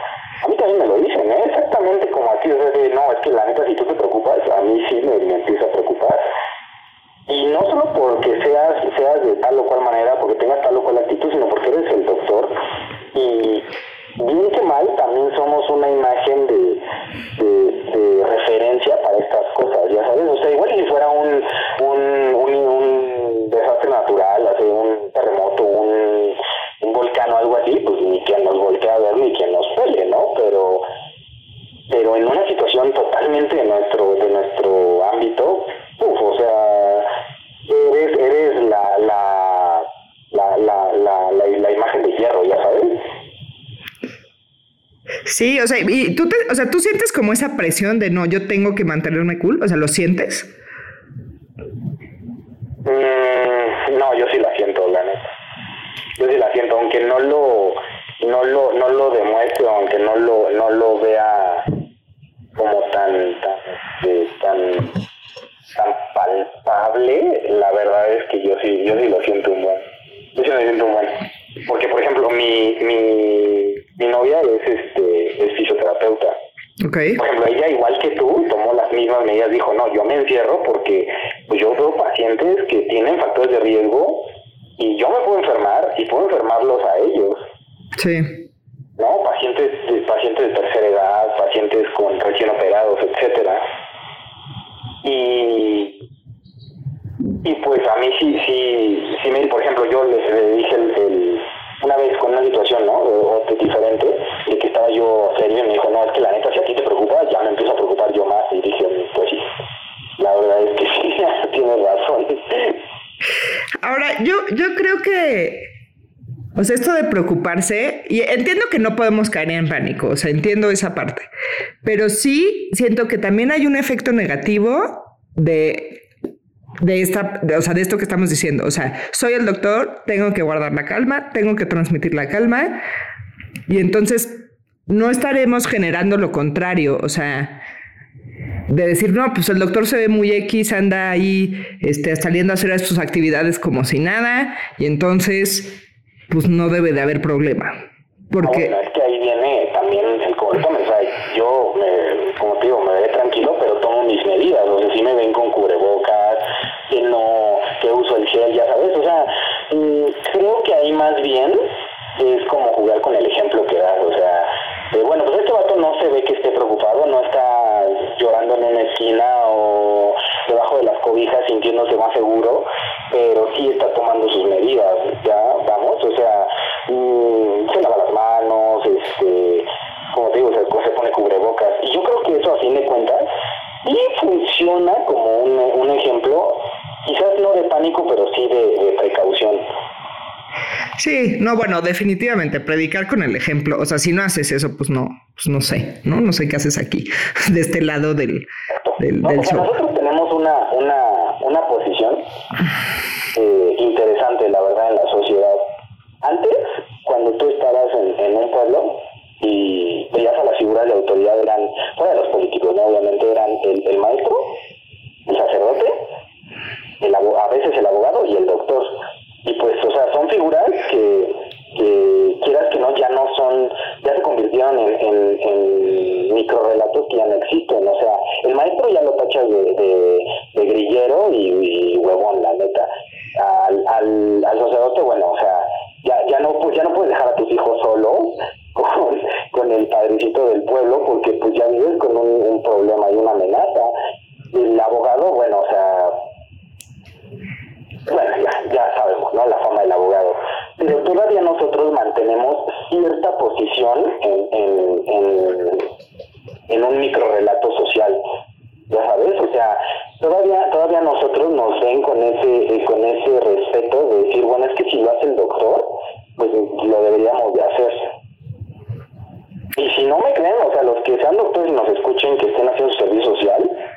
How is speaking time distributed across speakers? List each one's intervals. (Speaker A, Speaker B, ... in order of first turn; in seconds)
Speaker A: 0.4-6.2, 7.3-12.5, 13.1-13.7, 14.2-16.8, 17.4-30.8, 31.9-37.1, 37.7-43.0, 52.8-55.3, 56.2-61.7, 62.5-65.0, 65.7-69.8, 70.3-76.3, 77.2-84.2, 84.8-87.4, 89.0-93.6, 95.0-96.0, 97.4-109.4, 110.2-112.8, 148.4-161.6, 162.2-183.2, 183.8-189.6, 198.8-202.2, 203.3-205.6, 206.2-214.4, 215.2-216.0, 217.0-243.9, 244.5-246.1, 248.1-255.9, 256.7-258.2, 258.9-268.1, 269.8-273.7
Speaker B: 45.2-50.5, 76.8-77.2, 88.0-88.4, 113.8-115.7, 116.5-121.3, 121.8-126.0, 126.8-132.8, 133.7-137.6, 138.7-147.8, 148.3-148.7, 191.0-198.5, 199.0-199.7